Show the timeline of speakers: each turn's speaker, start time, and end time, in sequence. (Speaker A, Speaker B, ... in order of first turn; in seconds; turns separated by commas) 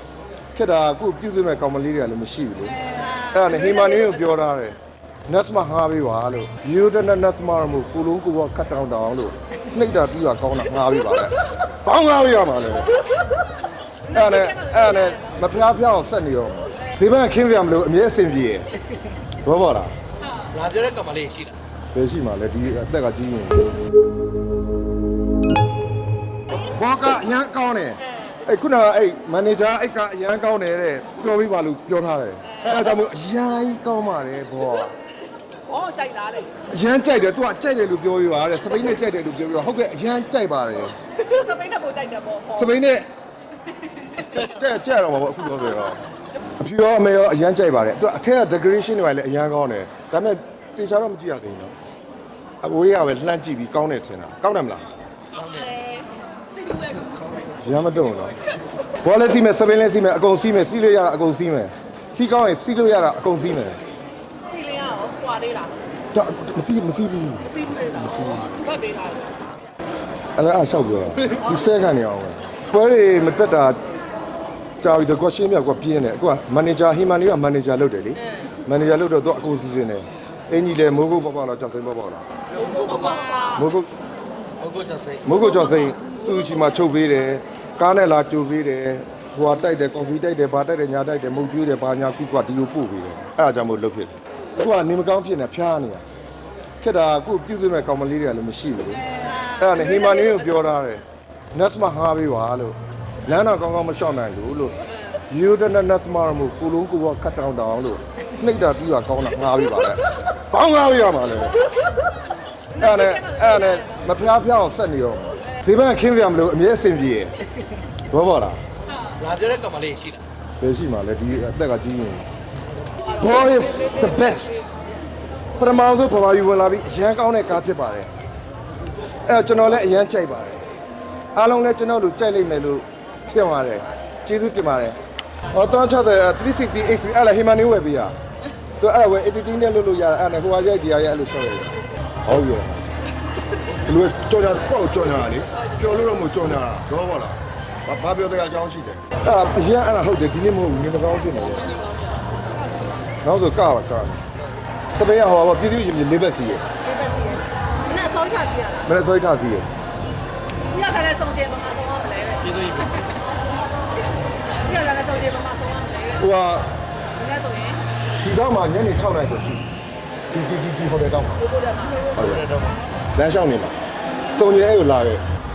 Speaker A: 0.6-4.8, Speaker A: 5.3-12.9, Speaker A: 14.1-18.7, Speaker A: 19.4-19.9, Speaker B: 20.5-21.6, Speaker A: 21.9-23.7, Speaker A: 26.6-34.9, Speaker C: 35.7-36.5, Speaker A: 36.7-41.0, Speaker C: 41.2-42.7, Speaker A: 42.5-43.1, Speaker A: 44.3-46.0, Speaker A: 46.6-51.7, Speaker A: 52.6-54.9, Speaker B: 55.4-55.8, Speaker C: 55.5-57.2, Speaker A: 57.6-58.4, Speaker A: 59.0-63.8, Speaker C: 64.5-65.7, Speaker A: 66.1-67.6, Speaker C: 67.5-69.3, Speaker A: 68.1-68.4, Speaker A: 70.4-73.8, Speaker A: 74.8-82.3, Speaker B: 82.7-83.3, Speaker C: 83.0-83.5, Speaker A: 83.5-83.9, Speaker B: 84.6-85.3, Speaker A: 85.2-96.0, Speaker A: 96.8-101.0, Speaker A: 101.5-104.8, Speaker A: 105.3-111.6, Speaker A: 112.7-117.3, Speaker A: 118.1-118.6, Speaker B: 119.2-120.2, Speaker A: 120.6-122.3, Speaker A: 123.2-124.6, Speaker A: 125.6-128.1, Speaker A: 129.3-130.6, Speaker A: 131.3-135.0, Speaker A: 135.5-138.1, Speaker A: 138.8-142.8, Speaker A: 143.9-151.8, Speaker A: 153.2-154.2, Speaker A: 154.9-156.6, Speaker C: 156.9-158.8, Speaker A: 158.8-159.7, Speaker C: 160.7-162.6, Speaker B: 162.5-162.9, Speaker C: 164.6-166.2, Speaker A: 166.2-166.7, Speaker C: 167.1-167.8, Speaker A: 168.2-169.7, Speaker A: 170.3-171.5, Speaker C: 171.5-172.0, Speaker A: 172.1-172.6, Speaker A: 173.2-173.8, Speaker A: 174.4-175.2